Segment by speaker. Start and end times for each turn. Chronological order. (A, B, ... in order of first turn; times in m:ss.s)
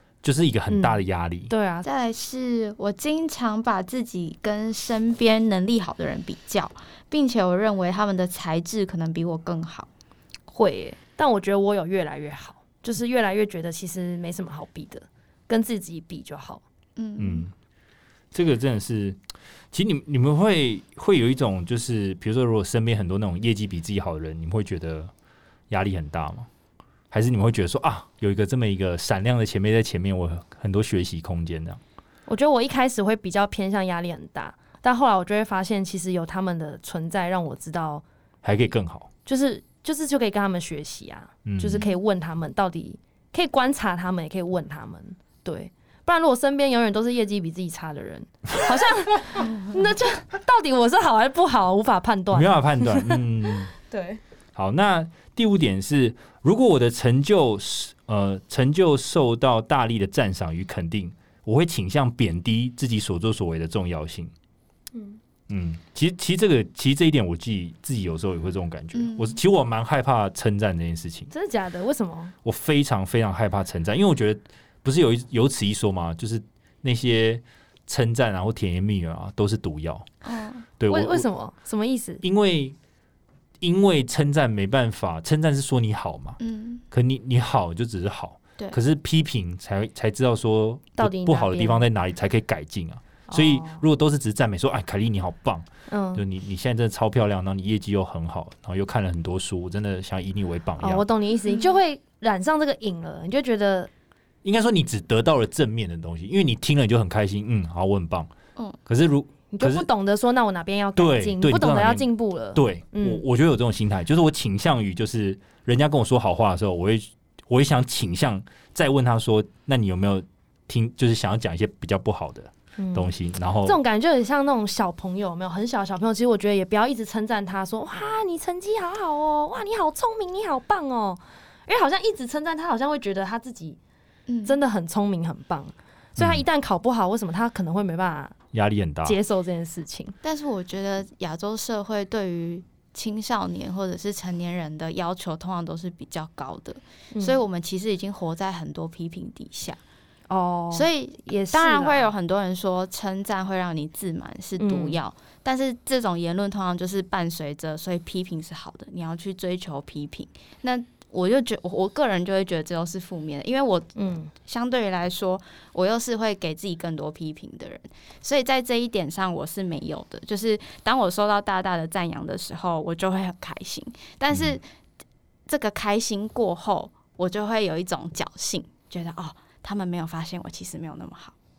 0:00.2-0:01.5 A
0:00.7-0:01.9 B
0:01.8-0:09.9 C
0:10.5-0:16.6 B
0:17.0-0:17.5 C
0:17.2-0:17.5 A
0:18.3-0:19.2 A
0:19.7-0:25.1 A
0:25.7-0:26.5 A
0:27.1-0:31.8 A
0:32.3-0:38.0 B
0:38.4-0:39.1 A
0:39.3-0:53.2 B
0:41.5-0:41.8 A
0:52.3-0:53.7 A
0:53.8-0:54.2 B
0:54.6-1:04.3 A
1:04.9-1:05.2 B
1:05.5-1:11.3 A
1:09.0-1:09.4 C
1:11.3-1:12.3 B
1:12.4-1:20.1 A
1:20.2-1:20.6 C
1:20.8-1:21.3 A
1:20.9-1:22.2 B
1:22.2-1:22.8 A
1:23.6-1:26.4 A
1:26.4-1:26.8 C
1:26.9-1:41.0 A
1:31.0-1:31.8 B
1:33.3-1:33.8 B
1:35.9-1:36.2 B
1:40.8-1:43.9 B
1:44.4-1:48.3 A
1:48.9-1:49.9 A
1:49.5-1:53.2 B
1:51.0-2:03.8 A
2:02.8-2:13.8 B
2:14.3-2:14.6 C
2:14.4-2:18.4 B
2:16.2-2:16.4 A
2:18.5-2:19.2 A
2:19.0-2:20.2 B
2:20.2-2:29.8 C
2:27.1-2:27.4 B
2:30.3-2:32.1 B
2:30.7-2:54.6 C
2:34.6-2:35.0 B
2:44.0-2:44.3 B
2:54.3-2:54.6 A
2:55.5-3:01.3 C